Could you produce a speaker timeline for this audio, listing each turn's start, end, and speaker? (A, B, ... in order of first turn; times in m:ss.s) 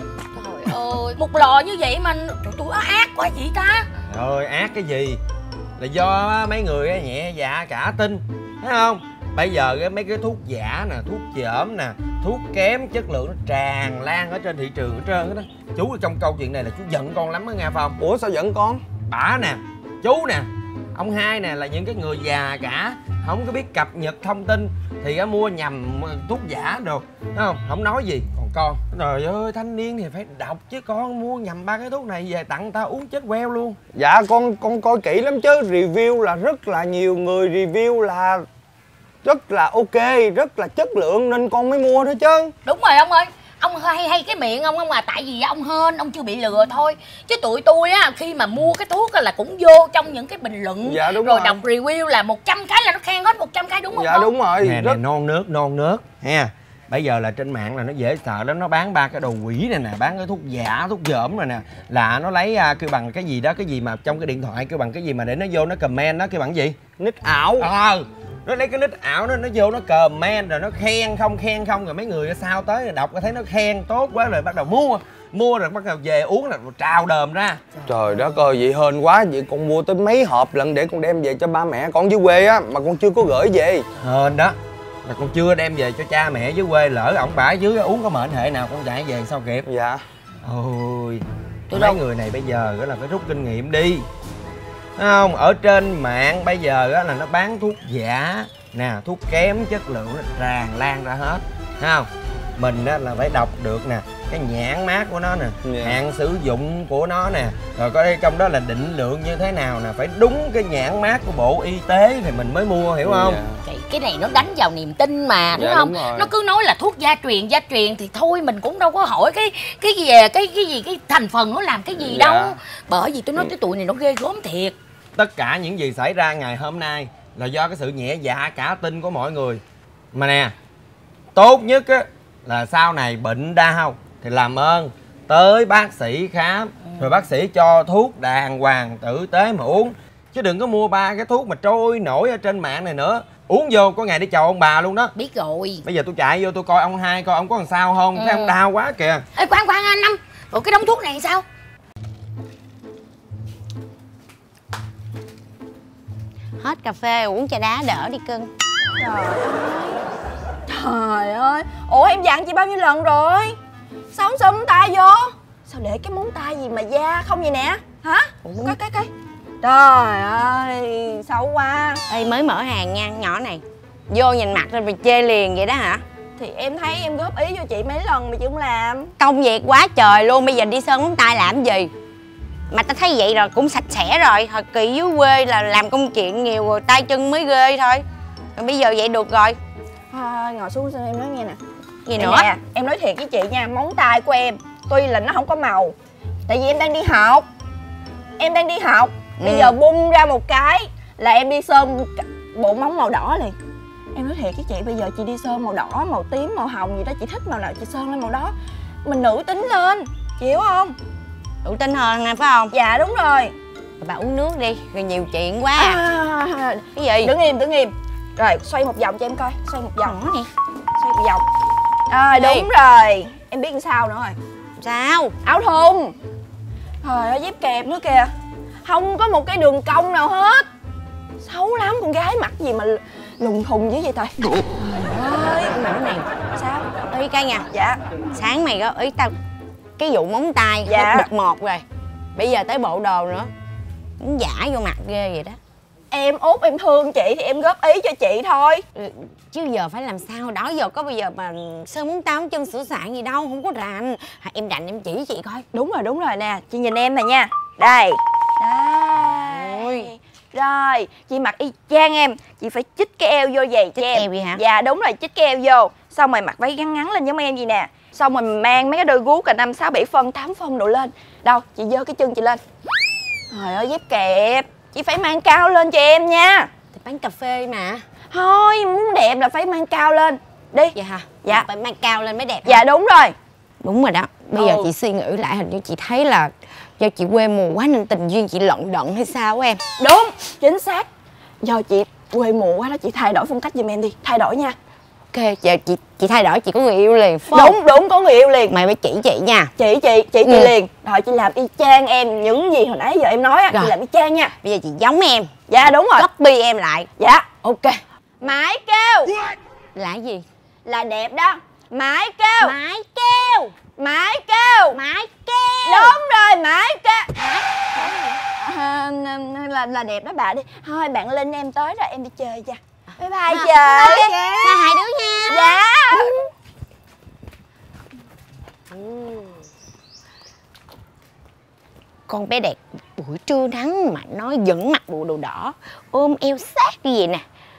0:00.3-0:03.9 A
0:04.0-0:05.2 B
0:05.8-0:18.0 B
0:18.0-0:18.8 C
0:19.0-0:33.8 B
0:33.9-0:38.4 C
0:39.2-0:42.5 C
0:42.6-0:54.3 A
0:50.8-0:51.6 C
0:53.9-0:55.0 C
0:54.6-1:06.8 B
1:07.0-1:07.7 C
1:07.6-1:17.7 B
1:17.8-1:23.8 C
1:24.0-1:29.6 B
1:29.6-1:30.0 C
1:30.4-1:34.0 B
1:31.7-1:32.0 A
1:35.0-1:53.4 B
1:45.6-1:46.0 C
1:53.0-1:53.6 C
1:53.6-2:04.8 A
1:55.5-1:56.3 C
2:02.0-2:02.5 C
2:05.2-2:09.6 B
2:10.1-2:10.5 B
2:11.3-2:25.1 B
2:16.8-2:17.2 A
2:25.1-2:25.8 A
2:25.8-2:29.2 B
2:28.2-2:28.5 A
2:29.4-2:31.4 A
2:36.6-2:38.5 D
2:39.0-2:40.0 E
2:40.7-2:43.6 E
2:44.1-2:49.1 E
2:48.4-2:48.8 D
2:49.6-2:52.0 E
2:52.1-2:56.0 D
2:56.4-2:59.1 E
2:59.2-3:01.9 D
3:02.7-3:08.0 D
3:08.6-3:09.6 D
3:10.1-3:11.6 E
3:12.0-3:12.5 D
3:12.2-3:15.9 E
3:16.5-3:17.5 E
3:18.4-3:23.6 E
3:19.4-3:19.7 D
3:24.1-3:31.0 E
3:31.6-3:32.7 D
3:32.7-3:33.5 E
3:34.0-3:36.0 D
3:35.8-3:40.2 E
3:36.9-3:37.3 D
3:40.0-3:40.5 D
3:41.0-3:41.4 E
3:42.1-3:44.4 E
3:42.4-3:42.7 D
3:44.8-3:45.3 D
3:45.4-3:46.1 E
3:47.0-3:48.3 E
3:48.8-3:50.7 E
3:51.4-3:54.4 E
3:55.0-3:55.7 E
3:55.2-3:56.2 D
3:56.6-3:56.9 E
3:57.0-3:57.6 D
3:57.7-3:58.0 E
3:58.3-3:59.3 D
4:00.0-4:01.8 D
4:00.8-4:01.3 E
4:02.3-4:03.5 D
4:04.2-4:05.6 D
4:06.1-4:08.8 E
4:08.9-4:15.6 D
4:15.7-4:32.6 E
4:19.4-4:20.1 D
4:24.0-4:24.6 D
4:33.5-4:36.7 E
4:36.9-4:38.0 D
4:38.3-4:41.6 E
4:40.9-4:42.8 D
4:42.6-4:43.3 E
4:43.8-4:49.8 D
4:44.6-4:44.9 E
4:50.0-4:51.1 E
4:51.6-4:54.8 E
4:55.3-4:57.8 D
4:57.5-4:58.7 E
4:58.7-4:59.7 D
4:59.8-5:04.5 E
5:00.4-5:00.7 D
5:03.7-5:03.9 D
5:04.6-5:05.5 D
5:05.7-5:06.3 E
5:06.1-5:07.1 D
5:07.2-5:09.3 E
5:09.9-5:10.4 D
5:10.8-5:12.8 E
5:12.6-5:13.7 D
5:14.0-5:15.0 E
5:14.9-5:16.2 D
5:15.8-5:17.3 E
5:17.4-5:17.7 D
5:17.9-5:24.9 E
5:23.5-5:26.2 D
5:25.5-5:26.4 E
5:28.9-5:29.6 D
5:32.3-5:37.4 D